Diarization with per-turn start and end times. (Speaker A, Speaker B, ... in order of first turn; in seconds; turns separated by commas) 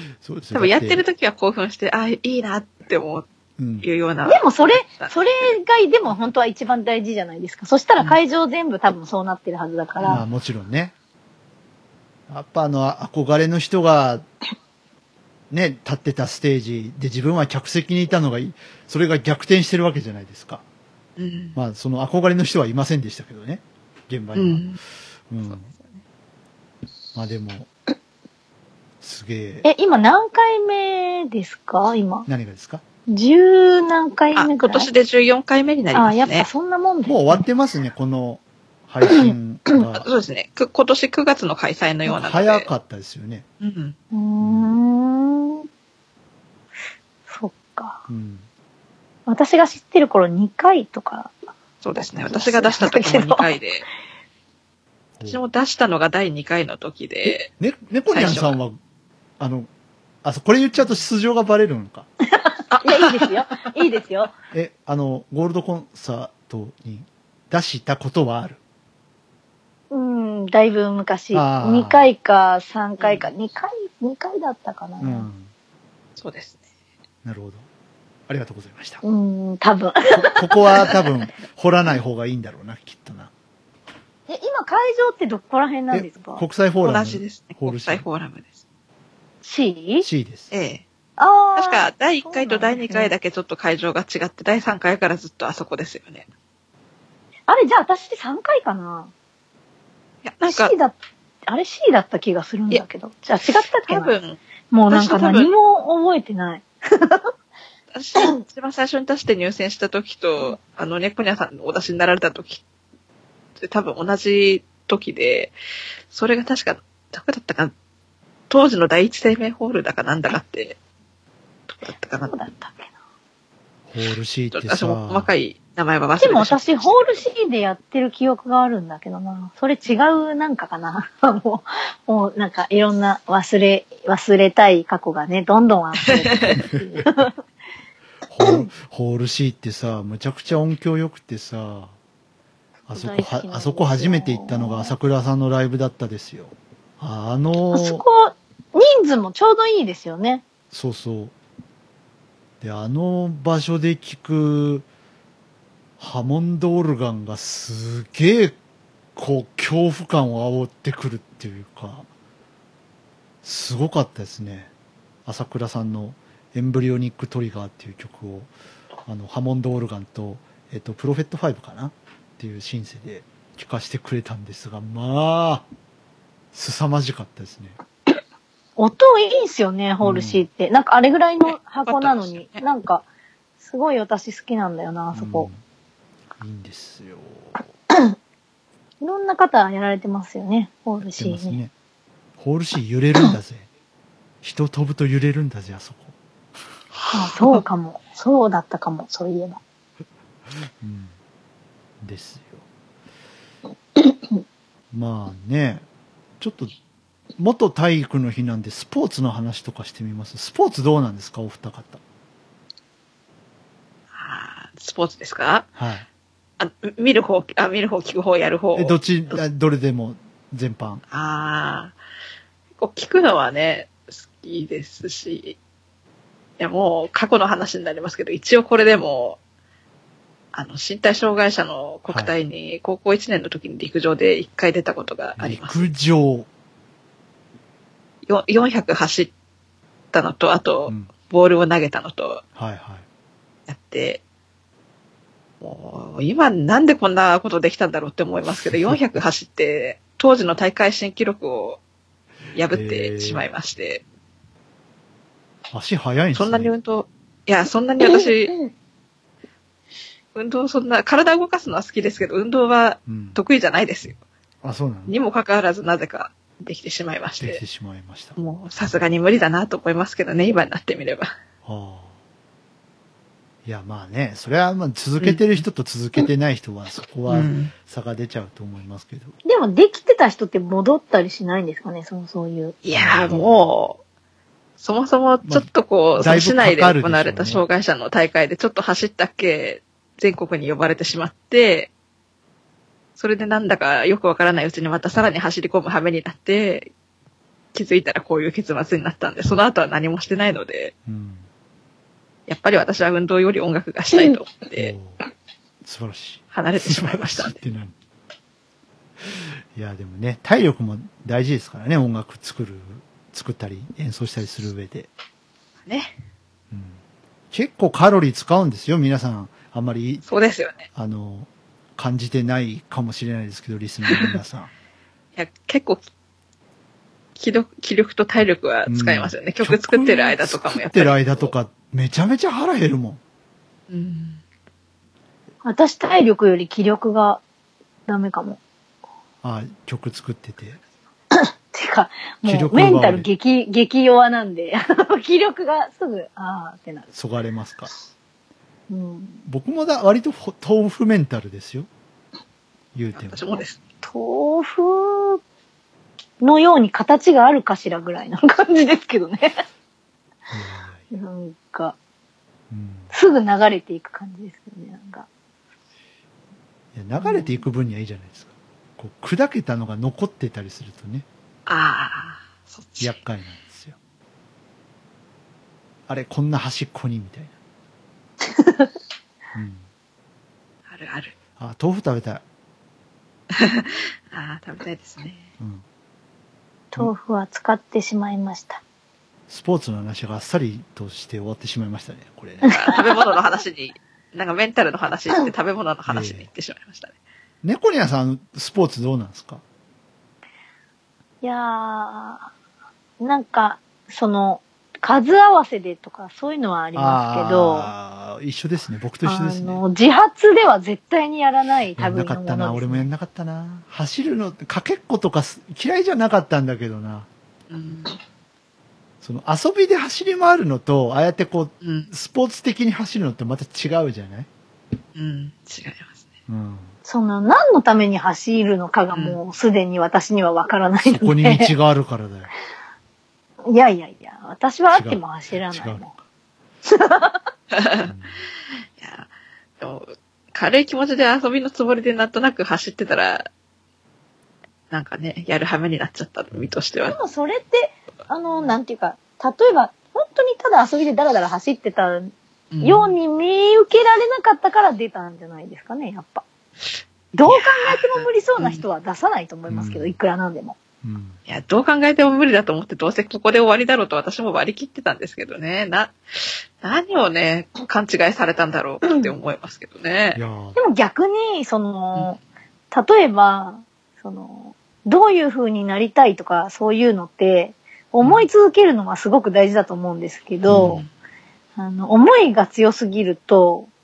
Speaker A: 0.2-1.0, Speaker B: 0.5-3.3, Speaker A: 3.6-3.9, Speaker B: 3.8-5.5, Speaker C: 4.3-10.2, Speaker A: 10.1-10.9, Speaker A: 12.3-14.2, Speaker A: 15.5-20.6, Speaker B: 21.2-21.6, Speaker A: 21.6-24.7, Speaker B: 24.4-24.8, Speaker A: 25.3-25.7, Speaker B: 25.5-26.0, Speaker A: 27.1-27.7, Speaker A: 29.0-29.7, Speaker C: 29.6-32.3, Speaker A: 32.3-32.8, Speaker C: 33.1-34.9, Speaker B: 34.4-36.5, Speaker C: 35.9-37.4, Speaker A: 37.1-40.1, Speaker B: 40.0-42.7, Speaker A: 42.1-43.5, Speaker B: 43.6-44.0, Speaker C: 44.1-45.7, Speaker A: 44.4-44.8, Speaker C: 47.3-48.0, Speaker A: 48.1-48.5, Speaker C: 49.3-51.3, Speaker B: 51.8-53.9, Speaker C: 52.2-53.5, Speaker B: 55.2-57.5, Speaker A: 57.6-58.8, Speaker B: 58.1-58.6, Speaker A: 59.4-59.7, Speaker A: 60.2-62.1, Speaker B: 62.7-63.4, Speaker C: 62.8-64.3, Speaker A: 64.5-68.6, Speaker C: 69.9-75.3, Speaker A: 71.3-72.1, Speaker B: 73.0-73.3, Speaker A: 75.0-75.5, Speaker B: 76.2-76.6, Speaker A: 77.2-77.7, Speaker A: 78.3-79.0, Speaker C: 79.0-80.9, Speaker A: 80.1-83.3, Speaker C: 84.3-86.4, Speaker A: 85.9-88.1, Speaker B: 86.8-88.6, Speaker C: 89.4-90.1, Speaker A: 90.0-90.5, Speaker B: 90.5-90.8, Speaker C: 91.2-93.1, Speaker B: 91.6-96.3, Speaker C: 97.5-99.1, Speaker B: 100.2-100.7, Speaker C: 100.5-101.0, Speaker C: 101.5-104.2, Speaker B: 103.4-105.5, Speaker C: 104.7-107.3, Speaker B: 107.9-112.6, Speaker B: 113.6-115.5, Speaker B: 116.1-117.7, Speaker B: 118.5-120.8, Speaker B: 121.7-122.3, Speaker C: 122.3-122.9, Speaker A: 123.9-125.3, Speaker B: 124.5-127.2, Speaker C: 126.2-137.3, Speaker B: 136.0-136.6, Speaker A: 138.3-141.9, Speaker C: 142.9-144.9, Speaker A: 142.9-148.0, Speaker C: 147.7-150.4, Speaker A: 150.7-151.3, Speaker A: 152.6-154.9, Speaker A: 156.0-158.6, Speaker A: 159.2-162.1, Speaker A: 163.4-164.7, Speaker A: 165.3-168.5, Speaker A: 169.1-175.7, Speaker A: 176.5-177.8, Speaker C: 178.8-183.1, Speaker A: 180.0-180.4, Speaker B: 181.5-182.6, Speaker C: 183.6-185.5, Speaker A: 185.1-185.6, Speaker A: 186.4-187.6, Speaker C: 189.0-191.6, Speaker A: 191.1-191.7, Speaker A: 192.4-193.7, Speaker A: 194.4-196.1, Speaker B: 197.0-197.6, Speaker C: 197.1-199.6, Speaker A: 200.6-201.1, Speaker A: 202.0-202.6, Speaker A: 204.9-205.8, Speaker A: 206.4-206.7, Speaker A: 207.4-212.0, Speaker B: 214.1-215.7, Speaker A: 215.8-216.1, Speaker B: 216.6-219.4, Speaker A: 218.8-221.0, Speaker B: 221.1-222.0, Speaker B: 222.8-225.6, Speaker B: 226.6-229.4, Speaker B: 230.5-235.9, Speaker A: 232.1-232.3, Speaker A: 235.4-236.5, Speaker B: 238.3-239.3, Speaker B: 240.1-242.4, Speaker A: 242.6-243.1, Speaker B: 243.7-244.2, Speaker B: 245.6-251.8, Speaker A: 248.6-249.2, Speaker B: 252.5-254.0, Speaker A: 252.7-253.5, Speaker A: 255.7-256.7, Speaker B: 256.4-258.6, Speaker B: 260.4-264.2, Speaker A: 263.1-263.4, Speaker A: 264.6-265.1, Speaker B: 265.1-267.6, Speaker A: 267.4-268.4, Speaker B: 268.4-271.3, Speaker A: 271.6-272.1, Speaker A: 273.6-279.3, Speaker B: 275.2-275.6, Speaker B: 277.3-277.7, Speaker C: 279.4-282.8, Speaker B: 282.8-284.0, Speaker A: 282.9-283.5, Speaker B: 284.8-291.9, Speaker A: 285.4-287.6, Speaker B: 293.2-296.9, Speaker B: 297.7-300.9, Speaker A: 301.1-301.5, Speaker B: 302.5-304.9, Speaker A: 304.8-305.2, Speaker A: 305.8-307.9, Speaker B: 306.5-307.6, Speaker A: 309.7-315.1, Speaker B: 315.9-316.1, Speaker A: 316.7-317.0, Speaker A: 317.5-320.2, Speaker B: 320.3-320.9, Speaker A: 320.9-324.7, Speaker B: 324.1-324.4, Speaker B: 325.4-326.0, Speaker B: 327.4-331.5, Speaker A: 328.9-333.2, Speaker B: 333.9-334.4, Speaker C: 335.6-337.4, Speaker C: 338.1-338.6, Speaker A: 339.4-340.8, Speaker C: 341.3-347.1, Speaker A: 342.4-343.3, Speaker A: 347.1-347.9, Speaker C: 348.9-349.4, Speaker A: 349.5-351.9, Speaker A: 352.9-353.6, Speaker B: 353.1-353.8, Speaker C: 354.0-355.4, Speaker C: 356.4-359.6, Speaker A: 360.5-361.0, Speaker C: 361.1-362.0, Speaker A: 362.7-363.1, Speaker C: 363.1-365.3, Speaker A: 366.9-371.3, Speaker B: 371.7-373.2, Speaker A: 373.0-374.0, Speaker A: 376.1-377.5, Speaker C: 378.5-378.9, Speaker A: 379.5-379.9, Speaker B: 380.9-381.3, Speaker A: 381.6-382.4, Speaker B: 383.5-385.5, Speaker C: 386.9-388.8, Speaker A: 389.5-392.8, Speaker C: 392.6-393.0, Speaker B: 392.7-397.1, Speaker A: 396.1-396.5, Speaker A: 397.6-399.6, Speaker C: 401.4-402.5, Speaker C: 403.2-407.9, Speaker A: 406.9-409.8, Speaker C: 409.2-413.1, Speaker A: 412.0-417.3, Speaker B: 417.7-418.2, Speaker A: 419.2-424.5, Speaker B: 421.8-422.1, Speaker B: 425.1-426.2, Speaker A: 426.5-426.9, Speaker C: 427.1-431.7, Speaker B: 429.1-429.4, Speaker A: 431.1-432.5, Speaker C: 433.6-436.1, Speaker A: 434.9-436.2, Speaker C: 436.9-437.4, Speaker B: 437.7-438.1, Speaker A: 438.1-438.4, Speaker B: 439.0-439.3, Speaker B: 439.8-443.5, Speaker B: 444.9-447.2, Speaker C: 447.1-452.3, Speaker B: 452.7-453.1, Speaker C: 452.8-456.4, Speaker C: 457.3-460.8, Speaker B: 457.5-458.8, Speaker A: 459.7-460.2, Speaker A: 461.0-461.4, Speaker B: 461.5-470.4, Speaker A: 470.3-470.8, Speaker C: 470.8-472.4, Speaker C: 472.9-481.0, Speaker B: 478.2-478.5, Speaker A: 480.7-481.0, Speaker B: 480.7-481.1, Speaker C: 481.8-483.9